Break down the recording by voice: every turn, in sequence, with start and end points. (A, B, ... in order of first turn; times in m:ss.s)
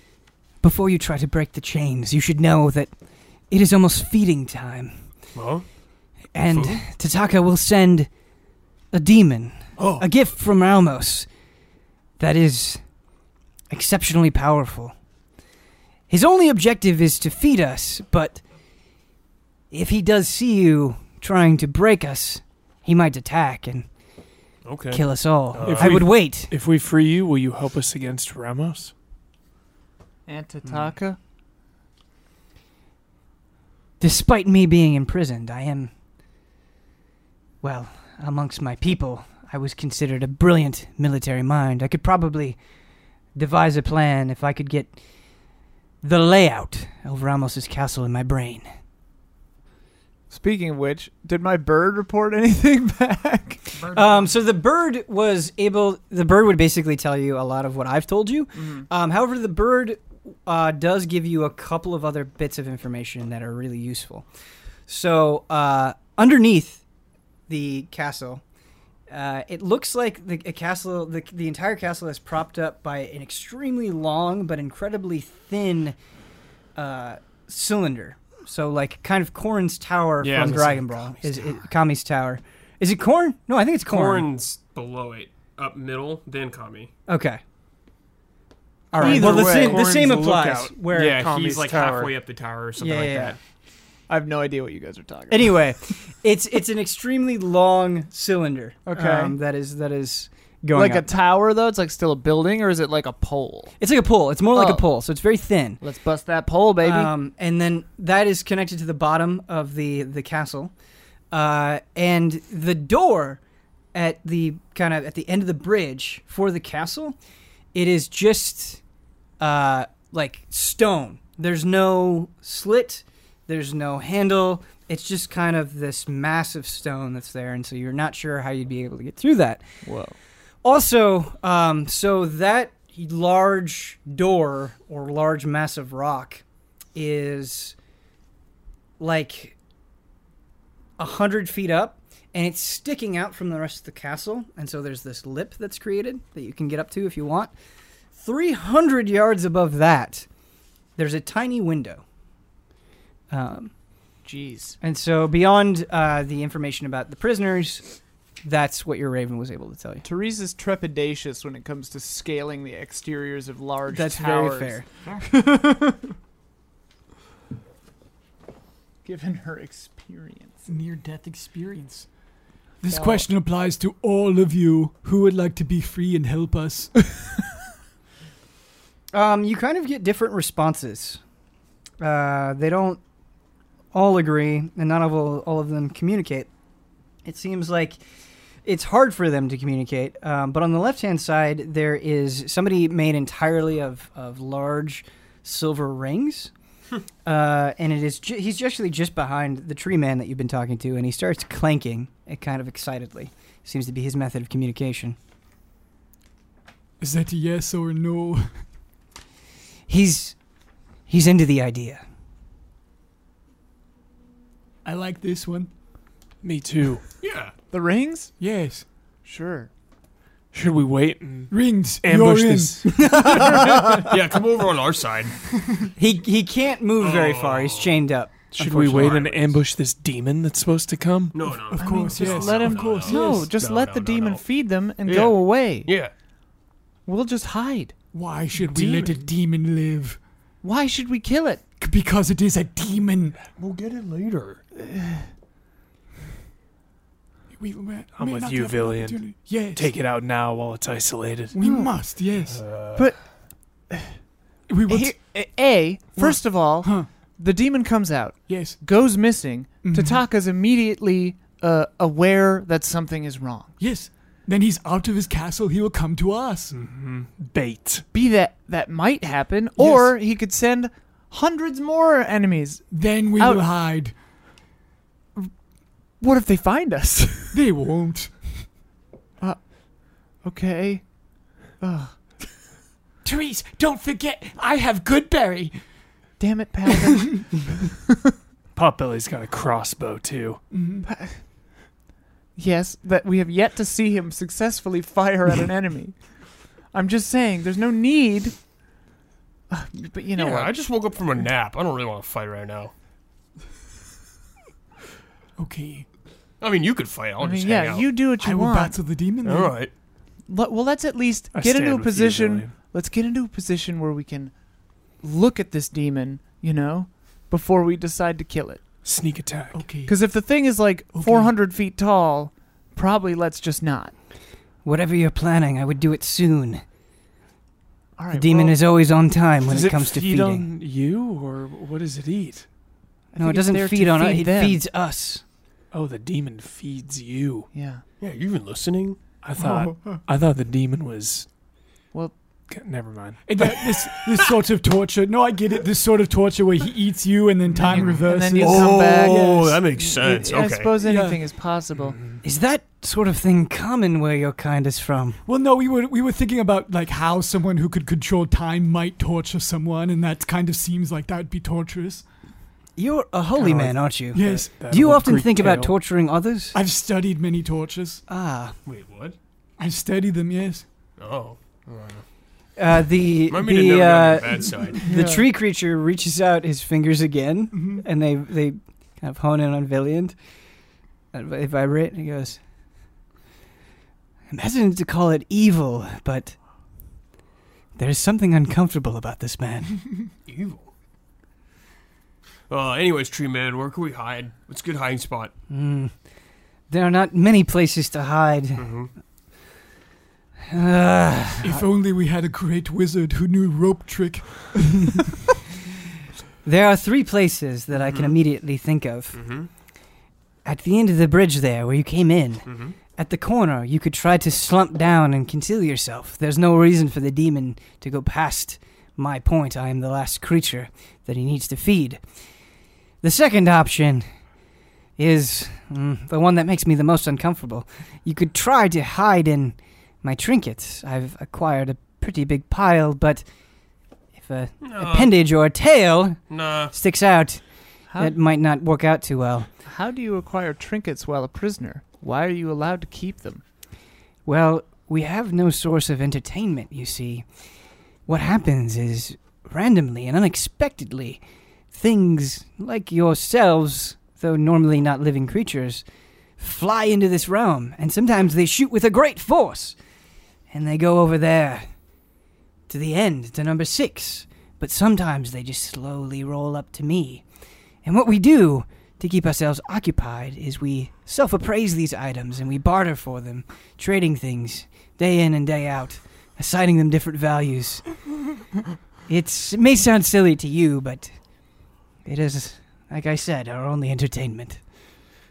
0:00.6-0:02.9 A
0:03.5-0:04.9 A
0:05.3-0:05.6 B
0:06.3-0:08.1 A
0:06.5-0:06.8 B
0:08.9-0:11.3 A
0:09.8-0:10.0 B
0:12.2-0:12.8 A
0:13.7-0:14.9 A
0:16.1-0:18.4 A
0:19.7-0:23.9 A
0:24.6-0:26.1 B
0:24.9-0:26.5 A
0:25.6-0:28.9 C
0:30.3-0:31.2 D
0:34.0-0:35.9 A
0:37.6-0:42.6 A
0:43.3-0:45.0 A
0:46.0-0:48.6 A
0:50.3-0:53.7 D
0:53.8-0:54.4 B
0:53.9-1:04.2 A
0:58.6-0:58.8 D
1:04.9-1:06.8 A
1:07.5-1:08.4 A
1:09.1-1:16.0 A
1:16.8-1:24.2 A
1:20.2-1:20.7 C
1:20.3-1:21.6 B
1:23.9-1:26.9 B
1:27.1-1:27.4 A
1:28.9-1:31.2 A
1:28.9-1:32.1 C
1:29.0-1:29.8 D
1:30.9-1:33.4 B
1:32.8-1:33.4 A
1:34.1-1:35.7 D
1:35.3-1:41.0 A
1:38.8-1:39.4 D
1:40.7-1:43.8 D
1:43.8-1:45.8 A
1:44.5-1:44.8 D
1:45.8-1:47.1 D
1:46.8-1:50.7 A
1:51.3-1:53.4 A
1:53.9-1:57.2 A
1:57.7-1:58.8 A
1:59.4-2:09.6 A
2:09.8-2:10.2 D
2:10.6-2:16.4 A
2:16.9-2:17.8 A
2:19.0-2:19.5 A
2:21.0-2:27.5 A
2:28.1-2:30.3 A
2:31.0-2:32.0 A
2:33.3-2:33.7 A
2:34.2-2:34.8 D
2:34.8-2:37.9 A
2:38.4-2:40.0 A
2:40.0-2:46.0 D
2:43.9-2:44.8 A
2:49.0-2:50.7 D
2:50.6-2:52.1 E
2:52.8-2:57.0 E
2:52.9-2:53.2 D
2:59.1-3:01.2 A
3:02.0-3:03.0 A
3:03.9-3:06.5 A
3:07.2-3:08.0 A
3:08.6-3:16.5 A
3:17.2-3:25.2 A
3:27.0-3:28.7 E
3:29.9-3:30.4 A
3:31.1-3:32.0 A
3:34.8-3:35.7 E
3:36.4-3:37.0 C
3:37.2-3:37.5 B
3:37.7-3:38.4 D
3:38.4-3:38.8 E
3:39.2-3:39.7 D
3:40.5-3:42.8 C
3:41.5-3:43.1 E
3:43.0-3:44.1 A
3:43.3-3:45.4 B
3:46.0-3:49.2 A
3:47.0-3:48.0 B
3:48.5-3:51.7 C
3:48.9-3:49.6 B
3:51.3-3:54.4 B
3:51.8-3:53.5 E
3:51.8-3:55.9 D
3:55.0-3:56.1 B
3:57.0-3:57.9 D
3:58.1-4:00.2 E
3:58.6-3:59.2 B
4:00.6-4:01.6 D
4:01.8-4:03.5 E
4:03.5-4:04.6 B
4:04.8-4:05.3 D
4:07.5-4:09.9 E
4:08.2-4:11.5 C
4:11.5-4:12.7 E
4:11.6-4:12.0 D
4:12.5-4:13.2 B
4:12.9-4:14.2 D
4:14.7-4:15.2 E
4:14.9-4:23.8 D
4:16.2-4:17.1 E
4:18.5-4:18.8 E
4:19.8-4:20.2 E
4:23.8-4:26.8 E
4:26.7-4:28.0 C
4:28.1-4:33.8 D
4:29.8-4:30.1 E
4:32.9-4:34.1 E
4:36.2-4:37.6 D
4:37.5-4:38.7 E
4:39.4-4:42.4 D
4:43.2-4:45.8 E
4:46.4-4:48.0 D
4:48.7-4:50.7 C
4:50.7-4:51.1 E
4:51.0-4:51.5 D
4:52.5-4:58.7 D
4:59.7-5:00.8 D
5:00.4-5:02.9 B
5:05.6-5:06.0 E
5:06.6-5:08.1 B
5:07.4-5:09.0 D
5:08.4-5:09.8 E
5:09.4-5:09.9 B
5:10.4-5:18.8 D
5:11.5-5:12.7 C
5:19.0-5:19.8 C
5:19.7-5:20.3 E
5:20.0-5:24.1 D
5:21.1-5:21.5 E
5:24.8-5:26.8 A
5:28.2-5:28.8 D
5:28.3-5:30.6 A
5:29.7-5:32.7 C
5:33.3-5:34.8 D
5:33.4-5:35.4 A
5:35.9-5:37.7 C
5:37.7-5:38.0 D
5:38.2-5:39.2 B
5:39.4-5:41.5 C
5:39.6-5:40.2 E
5:42.7-5:43.4 C
5:43.4-5:49.8 E
5:47.8-5:52.2 D
5:48.5-5:50.9 B
5:51.0-5:51.4 E
5:52.0-5:52.4 C
5:52.4-5:55.4 A
5:55.4-6:02.2 E
6:03.0-6:06.8 A
6:03.6-6:05.9 C
6:04.3-6:04.7 E
6:06.7-6:08.2 E
6:08.3-6:08.8 A
6:08.8-6:09.4 B
6:09.8-6:10.8 E
6:11.2-6:12.2 B
6:12.8-6:20.3 A
6:13.5-6:15.0 B
6:15.1-6:15.4 D
6:17.7-6:18.0 E
6:21.3-6:22.6 A
6:24.5-6:26.6 A
6:28.0-6:30.0 A
6:30.4-6:30.9 B
6:32.7-6:35.5 B
6:35.7-6:36.1 A
6:36.9-6:38.9 A
6:38.8-6:39.1 B
6:40.7-6:41.8 A
6:41.6-6:45.3 E
6:46.6-6:49.4 A
6:47.9-6:48.4 B
6:49.3-6:49.7 B
6:50.6-7:02.2 A
6:52.6-6:53.0 B
7:03.2-7:04.3 A
7:05.2-7:13.4 A
7:14.3-7:19.7 A
7:14.8-7:15.4 B
7:16.5-7:16.9 B
7:18.1-7:18.3 D
7:19.8-7:23.6 D
7:24.4-7:27.4 A
7:28.3-7:31.4 A
7:31.9-7:36.0 A
7:36.6-7:40.0 A
7:40.7-7:41.9 A
7:42.9-7:47.4 A
7:48.0-7:58.2 A
7:59.3-8:04.8 A